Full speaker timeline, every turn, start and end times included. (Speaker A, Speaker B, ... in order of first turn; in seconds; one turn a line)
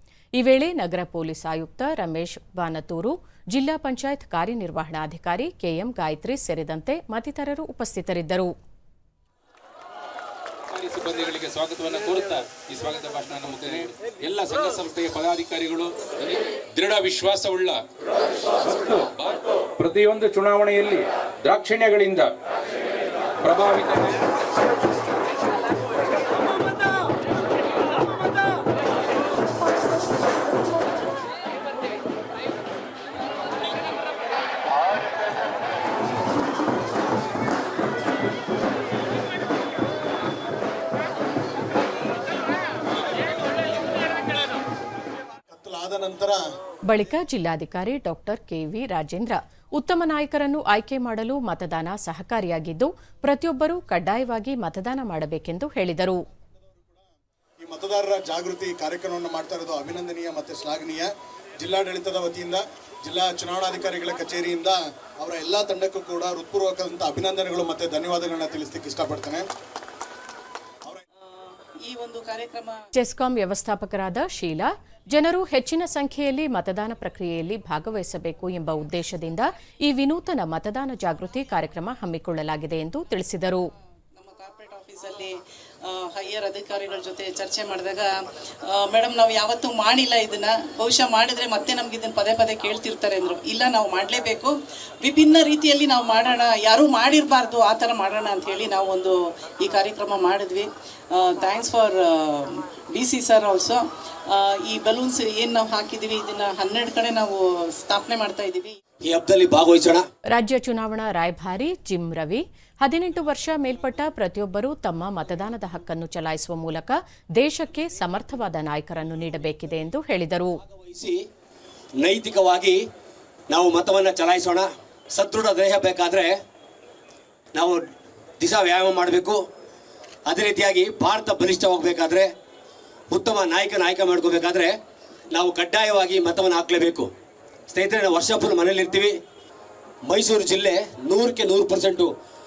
Speaker A: 0.3-8.5
Speaker B: 10.7-17.8
Speaker B: 18.6-22.3
Speaker B: 23.4-24.1
Speaker C: 45.5-46.4
Speaker A: 46.9-56.2
Speaker C: 57.6-69.5
Speaker D: 71.2-72.9
Speaker A: 72.9-83.7
Speaker D: 84.2-88.1
Speaker D: 88.6-108.8
Speaker E: 109.0-110.0
Speaker A: 110.3-120.6
Speaker E: 120.8-121.2
Speaker E: 122.0-122.8
Speaker E: 123.5-126.4
Speaker E: 127.5-127.8
Speaker E: 128.4-129.4
Speaker E: 130.3-132.3
Speaker E: 133.1-134.8
Speaker E: 135.3-137.1
Speaker E: 137.7-139.2
Speaker E: 140.1-142.1